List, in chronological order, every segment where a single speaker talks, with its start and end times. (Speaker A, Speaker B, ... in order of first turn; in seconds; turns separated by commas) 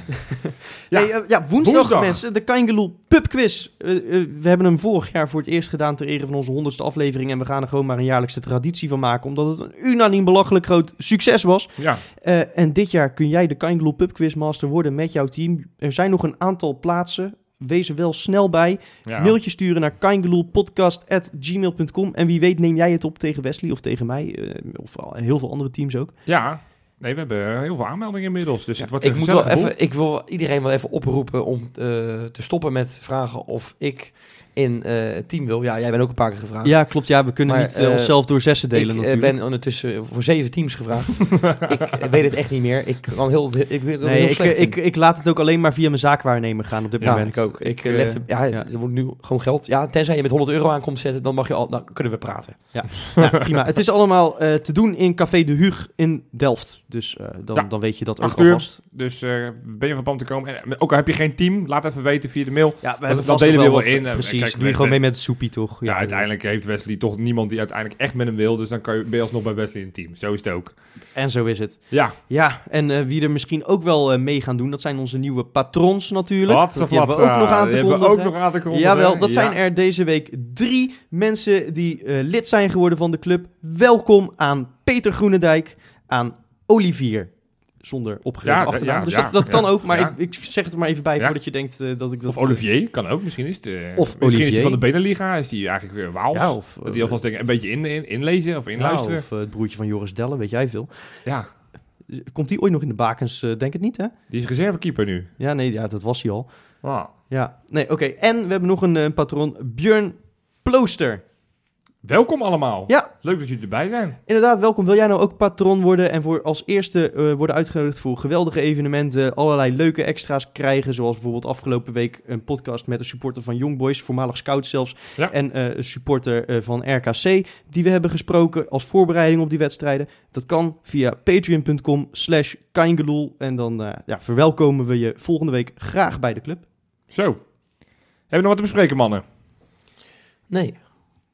Speaker A: 0.1-26.1, Speaker B: 0.9-2.2, Speaker B: 11.8-12.0, Speaker B: 19.1-19.4, Speaker B: 26.3-29.7, Speaker C: 28.8-36.8, Speaker A: 36.6-39.4, Speaker C: 37.4-44.8, Speaker A: 44.0-48.7, Speaker B: 47.0-47.3, Speaker C: 47.0-52.9, Speaker A: 52.7-58.7, Speaker B: 58.2-65.0, Speaker A: 62.8-66.3, Speaker B: 65.8-70.8, Speaker A: 71.2-87.3, Speaker B: 71.9-72.2, Speaker B: 76.5-79.6, Speaker A: 87.8-92.6, Speaker B: 88.4-90.1, Speaker B: 92.3-99.2, Speaker A: 94.0-94.8, Speaker A: 96.3-97.2, Speaker A: 98.8-100.9, Speaker A: 102.1-104.1, Speaker B: 104.3-105.3, Speaker A: 105.4-106.5, Speaker B: 106.8-107.1, Speaker A: 107.3-111.2, Speaker B: 112.0-114.2, Speaker A: 114.3-136.7, Speaker B: 137.1-137.5, Speaker B: 138.3-139.2, Speaker C: 140.5-140.8